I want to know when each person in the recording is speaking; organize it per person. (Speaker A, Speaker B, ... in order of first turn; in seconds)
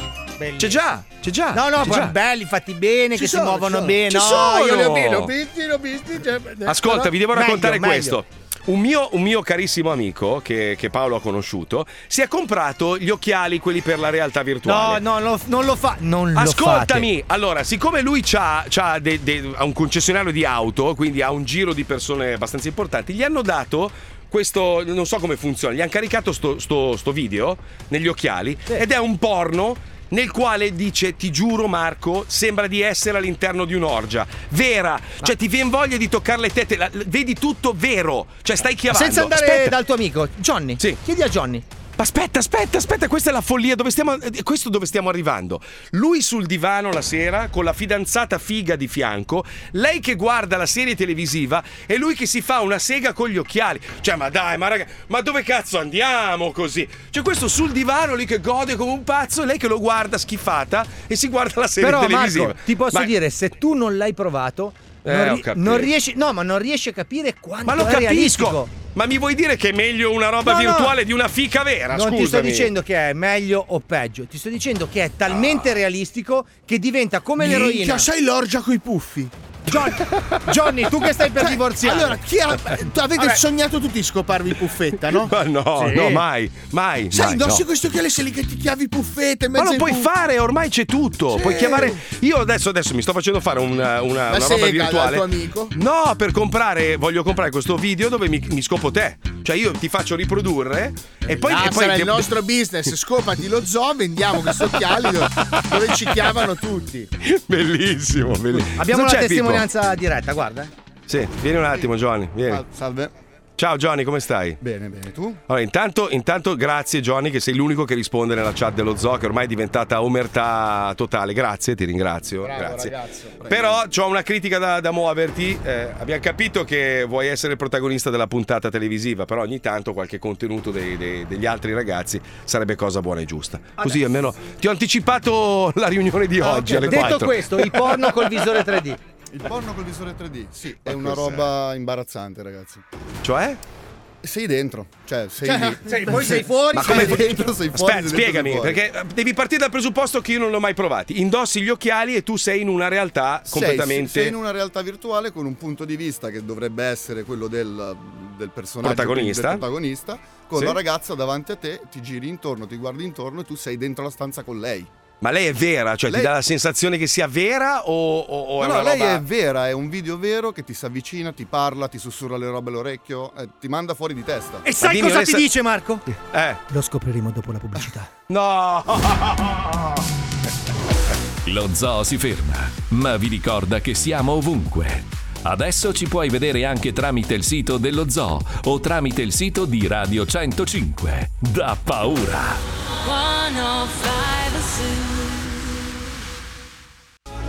Speaker A: 0.4-0.8, 1.5-4.5, 6.8-8.2, 14.6-17.1, 38.9-41.6, 61.8-68.7, 70.4-70.9, 71.9-78.1, 79.7-82.2, 85.8-86.2, 108.8-110.7, 133.8-134.1, 136.4-139.0, 145.4-147.4, 174.6-176.0, 176.7-178.1
Speaker B: 0.6-2.2, 4.1-5.3, 6.7-15.0, 16.3-39.8, 42.0-63.1, 65.0-65.9, 67.7-72.7, 85.1-87.6, 89.6-102.3, 107.2-109.7, 111.1-112.6, 113.6-114.6, 115.5-122.9, 123.5-138.2, 140.8-141.5, 143.2-143.6, 146.7-154.3, 158.8-159.6, 160.5-160.8, 165.2-169.2, 174.8-175.5, 176.1-176.6, 178.3-179.7
Speaker C: 3.1-6.8, 77.4-79.3, 81.4-85.3, 87.1-90.1, 91.3-92.0, 94.3-95.7, 101.3-107.1, 122.5-123.5
Speaker D: 112.5-113.1, 114.6-115.4, 123.4-123.7, 139.3-142.8, 144.2-148.8, 153.5-164.9, 168.6-174.7
Speaker E: 181.4-192.6
Speaker F: 193.0-195.2